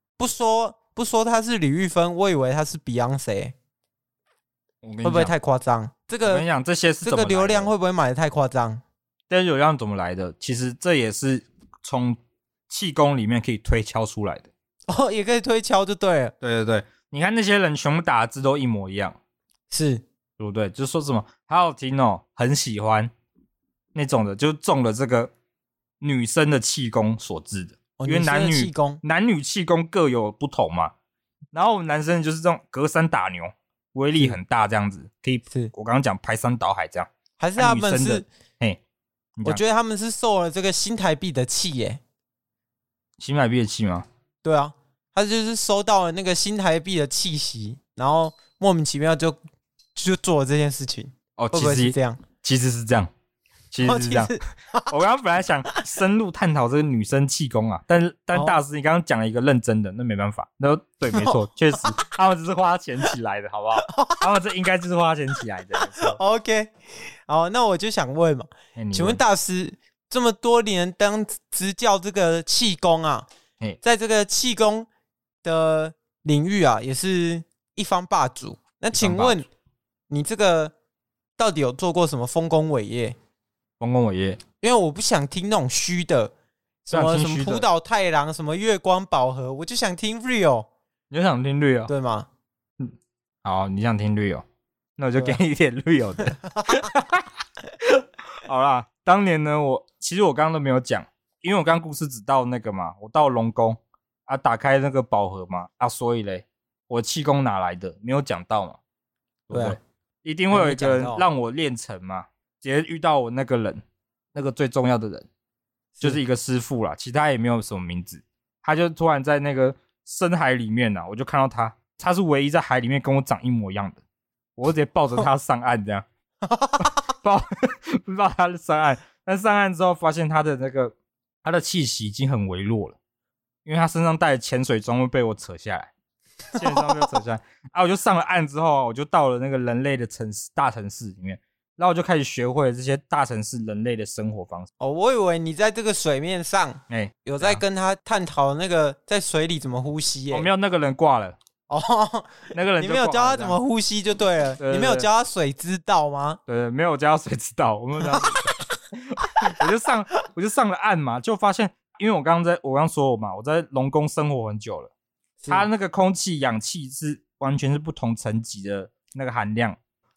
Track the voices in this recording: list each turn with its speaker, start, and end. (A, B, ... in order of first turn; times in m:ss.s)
0:00.2-0:03.5 A
0:04.8-0:05.3 B
0:05.0-0:06.4 A
0:06.2-0:07.7 B
0:07.0-0:08.8 A
0:09.3-0:12.2 B
0:12.7-0:14.5 B
0:14.9-0:16.3 A
0:16.4-0:19.2 B
0:19.7-0:20.0 A
0:20.4-0:23.1 B
0:23.9-0:25.3 B
0:26.0-0:30.9 B
0:28.0-0:29.0 A
0:31.5-0:38.8 B
0:37.4-0:38.2 A
0:39.4-0:39.6 B
0:39.4-0:42.0 A
0:43.2-0:44.0 B
0:44.4-0:49.4 A
0:49.9-0:52.2 A
0:51.4-0:53.1 B
0:53.7-0:54.3 B
0:53.8-0:54.9 A
0:54.9-1:06.2 B
1:01.1-1:01.4 A
1:03.8-1:04.2 A
1:05.9-1:06.7 A
1:07.3-1:13.3 A
1:08.8-1:09.2 B
1:13.8-1:14.9 A
1:15.4-1:19.4 A
1:18.9-1:19.4 B
1:20.1-1:20.7 A
1:21.4-1:23.1 A
1:23.8-1:24.4 B
1:24.6-1:26.3 A
1:26.8-1:30.7 A
1:26.9-1:27.6 B
1:31.1-1:31.9 B
1:31.9-1:32.3 A
1:32.8-1:34.4 B
1:35.0-1:37.2 B
1:37.8-1:48.8 B
1:49.5-1:53.8 B
1:49.5-1:49.8 A
1:50.5-1:51.2 A
1:54.3-1:55.3 B
1:56.0-2:04.0 B
2:04.6-2:06.0 B
2:06.4-2:06.9 A
2:06.8-2:13.0 B
2:13.6-2:15.9 B
2:16.5-2:24.7 B
2:16.5-2:17.0 A
2:24.8-2:30.5 A
2:26.9-2:27.6 B
2:30.3-2:31.4 B
2:31.7-2:36.4 A
2:32.5-2:33.6 B
2:34.6-2:35.1 B
2:36.5-2:44.9 B
2:38.0-2:38.3 A
2:45.4-2:45.7 A
2:45.5-2:49.8 B